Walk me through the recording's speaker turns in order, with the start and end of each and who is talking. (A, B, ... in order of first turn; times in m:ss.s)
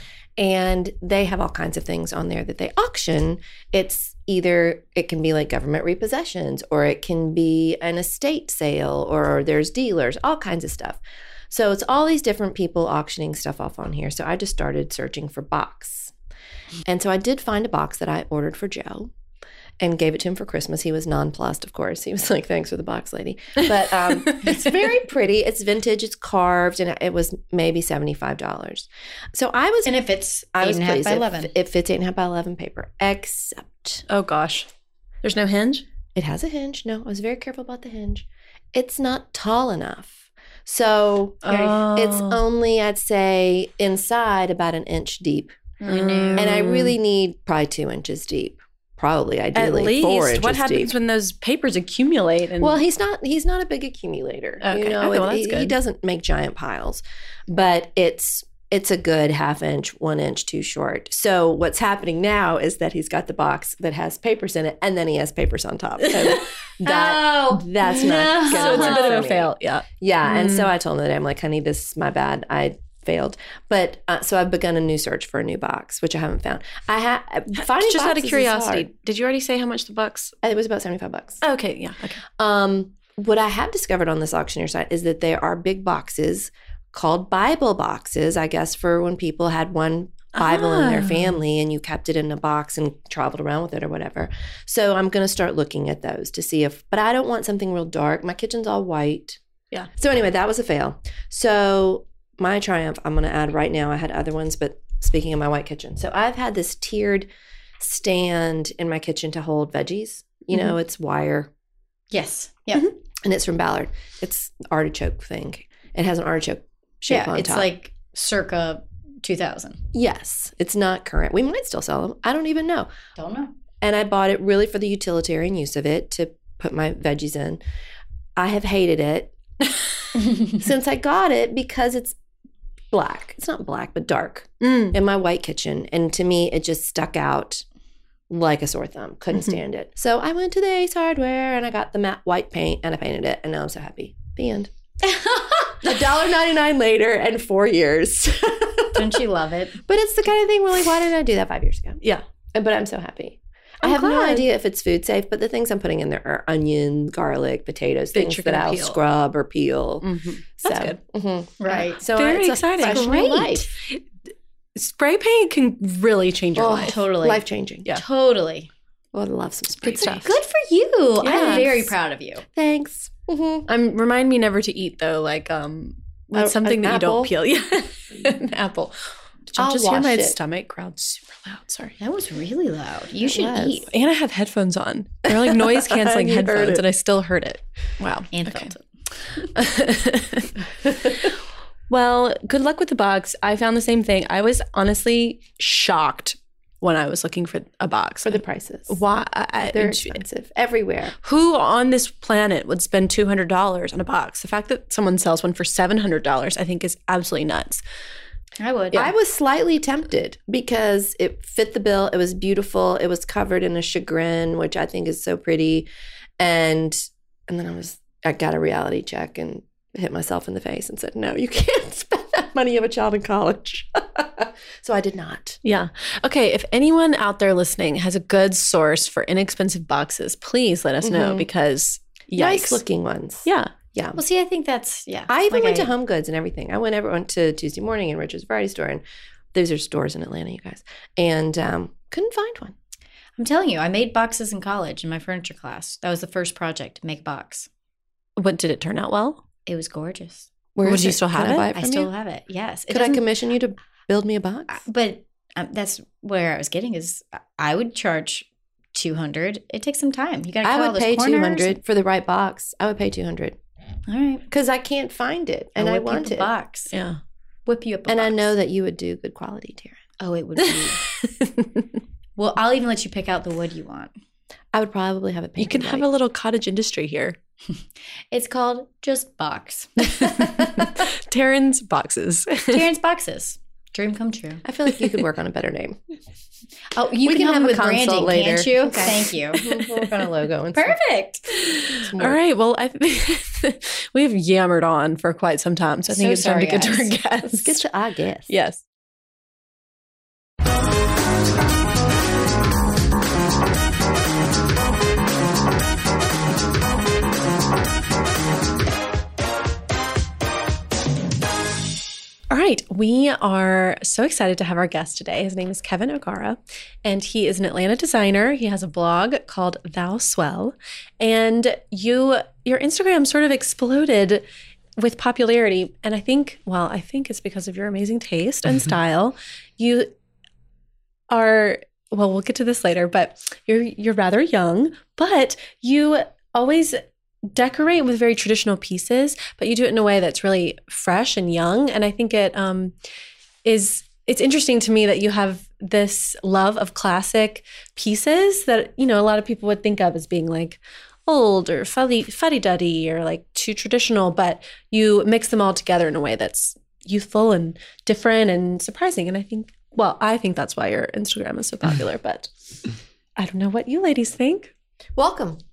0:00.4-0:16.1 A
0:16.8-0:19.1 A
0:19.8-0:30.0 A
0:29.8-0:31.5 B
0:30.5-0:34.0 A
0:34.1-0:34.7 C
0:35.2-0:35.8 C
0:36.1-0:45.6 A
0:41.4-0:42.4 C
0:45.8-0:46.9 C
0:45.8-0:46.6 B
0:46.3-0:50.9 A
0:49.5-0:52.8 C
0:52.6-1:18.9 A
0:54.6-0:55.7 C
1:06.3-1:09.3 B
1:08.3-1:10.7 C
1:17.5-1:20.3 C
1:20.4-1:21.4 A
1:21.4-1:22.2 C
1:22.4-1:39.4 A
1:30.3-1:31.4 C
1:39.9-1:47.3 A
1:47.8-1:51.5 A
1:52.1-1:52.9 B
1:53.2-1:57.7 A
1:57.1-1:59.8 B
1:59.9-2:02.9 A
2:03.2-2:03.5 B
2:03.8-2:07.6 A
2:08.4-2:09.3 A
2:10.4-2:12.2 A
2:12.9-2:17.6 A
2:14.6-2:14.9 C
2:18.3-2:24.7 A
2:25.1-2:25.7 B
2:25.8-2:29.2 A
2:28.9-2:29.8 B
2:29.8-2:32.0 A
2:32.5-2:40.1 A
2:33.8-2:34.5 C
2:38.1-2:39.0 C
2:40.0-2:41.0 C
2:40.6-2:43.7 A
2:41.6-2:42.0 B
2:42.1-2:44.0 C
2:42.8-2:43.6 B
2:44.7-2:47.0 C
2:46.6-2:47.9 A
2:46.8-2:48.7 B
2:49.1-2:50.4 A
2:49.8-2:50.3 C
2:50.1-2:52.4 B
2:51.2-2:51.8 C
2:51.2-2:51.9 A
2:52.5-2:53.7 A
2:53.7-3:02.0 C
2:56.3-2:57.3 A
2:59.6-3:00.4 A
3:02.0-3:03.9 B
3:03.2-3:03.8 A
3:03.8-3:08.7 C
3:05.3-3:06.8 A
3:08.3-3:08.8 B
3:09.4-3:11.2 C
3:11.9-3:20.2 C
3:18.2-3:19.0 A
3:19.6-3:21.1 A
3:21.2-3:27.8 C
3:28.6-3:29.1 B
3:28.9-3:35.9 A
3:36.4-3:45.6 A
3:45.6-3:52.8 C
3:51.0-3:51.5 A
3:52.3-3:54.2 A
3:53.4-3:53.7 C
3:54.2-3:55.9 B
3:55.3-3:59.0 A
3:59.5-4:02.7 A
4:03.4-4:07.7 B
4:08.4-4:09.4 C
4:09.6-4:10.5 B
4:10.7-4:12.1 A
4:10.8-4:11.7 C
4:11.7-4:13.2 B
4:12.9-4:14.8 A
4:14.7-4:21.8 B
4:20.6-4:23.6 A
4:24.1-4:24.4 B
4:24.5-4:26.5 A
4:25.8-4:26.9 B
4:26.9-4:27.2 C
4:27.6-4:28.5 B
4:28.1-4:30.0 A
4:30.2-4:31.0 B
4:31.2-4:31.8 C
4:32.4-4:34.1 B
4:34.7-4:36.1 A
4:35.6-4:37.4 C
4:38.3-4:40.4 B
4:40.1-4:42.8 C
4:42.7-4:44.6 B
4:44.6-4:46.0 A
4:46.9-4:50.0 B
4:47.2-4:51.0 A
4:50.7-4:51.5 B
4:51.6-4:57.8 C
4:52.0-4:52.4 A
4:56.2-4:57.0 B
4:56.2-4:56.9 A
4:57.4-4:58.5 A
4:58.5-4:58.8 C
5:12.5-5:24.4 C
5:25.0-5:30.1 C
5:31.3-5:42.9 C
5:43.6-6:02.5 C
6:03.4-6:04.7 C
6:05.2-6:05.6 A